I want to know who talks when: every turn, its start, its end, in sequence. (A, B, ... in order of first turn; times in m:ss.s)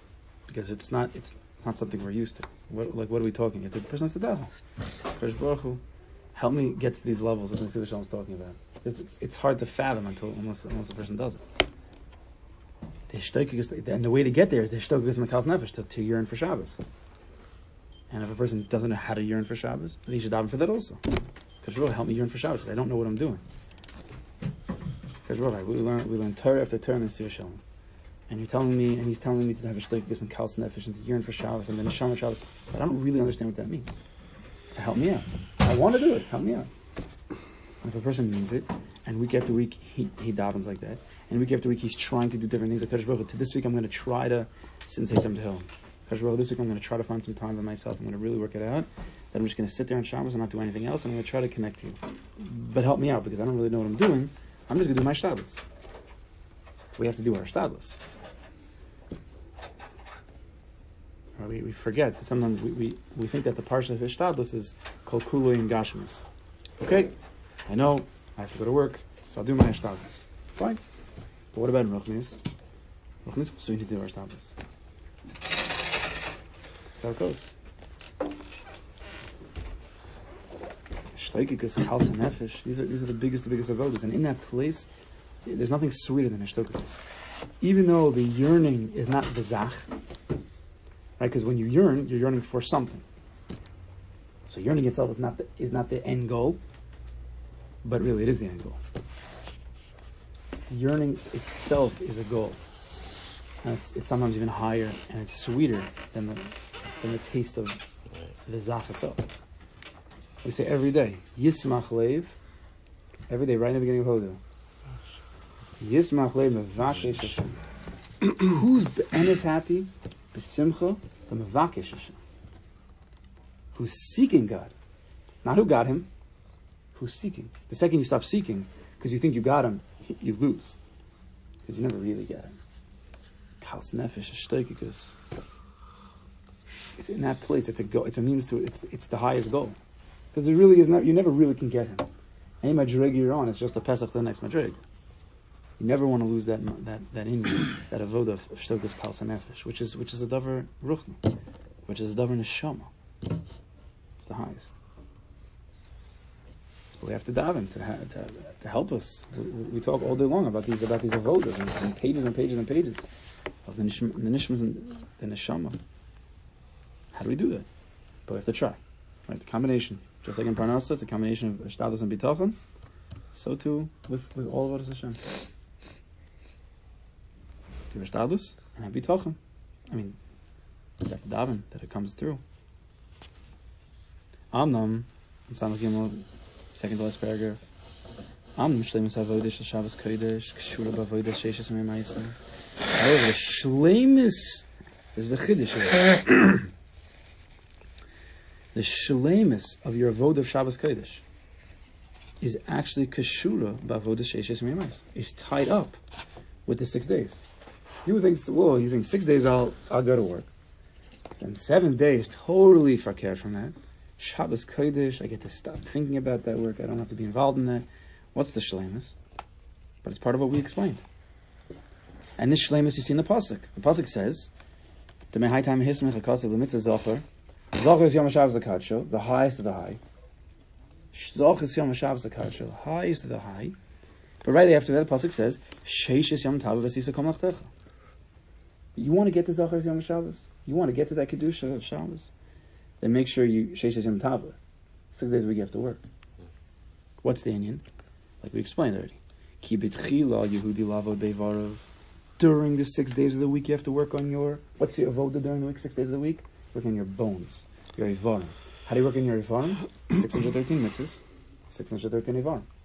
0:00.5-0:04.5 A
0:05.1-0:05.8 A
0:06.3-0:11.4 A
0:13.1-0:16.8 A
0:18.1-0:21.0 A
0:21.6-0:23.4 A
0:25.2-0:27.6 A
0:28.3-0:34.0 A
0:34.7-0:36.7 A
0:37.8-0:55.6 A
0:57.0-0:58.0 A
1:01.4-1:06.2 A
1:06.8-1:07.1 A
1:07.6-1:10.8 A
1:11.5-1:12.4 A
1:13.2-1:14.6 A
1:16.9-1:17.5 A
1:21.1-1:24.9 A
1:25.4-1:27.0 A
1:27.6-1:29.9 A
1:31.2-1:33.0 A
1:34.5-1:36.6 A
1:37.8-1:38.8 A
1:40.7-1:42.6 A
1:43.6-1:47.8 A
1:48.4-1:49.2 A
1:50.4-1:52.3 A
1:53.3-1:54.4 A
1:55.8-1:57.6 A
1:58.3-2:02.2 A
2:03.7-2:04.7 A
2:05.4-2:06.1 A
2:06.9-2:10.8 A
2:11.6-2:12.5 A
2:13.6-2:15.2 A
2:17.0-2:19.8 A
2:20.3-2:22.1 A
2:22.6-2:24.8 A
2:25.8-2:31.3 A
2:31.8-2:32.9 A
2:34.2-2:34.8 A
2:36.9-2:43.1 A
2:43.6-2:45.8 A
2:47.1-2:47.7 A
2:48.2-2:52.6 A
2:53.3-2:55.2 A
2:57.9-2:59.4 A
2:59.9-3:00.2 A
3:01.0-3:02.4 A
3:04.5-3:07.6 A
3:08.6-3:12.3 A
3:12.9-3:16.6 A
3:18.7-3:21.2 A
3:22.4-3:26.0 A
3:26.6-3:27.4 A
3:28.0-3:30.5 A
3:31.4-3:39.1 A
3:40.0-3:41.0 A
3:42.4-3:44.5 A
3:45.3-3:50.0 A
3:51.1-3:53.8 A
3:54.4-3:57.7 A
3:58.9-4:02.3 A
4:03.0-4:04.6 A
4:05.1-4:06.0 A
4:07.2-4:07.8 A
4:08.4-4:11.9 A
4:12.4-4:22.6 A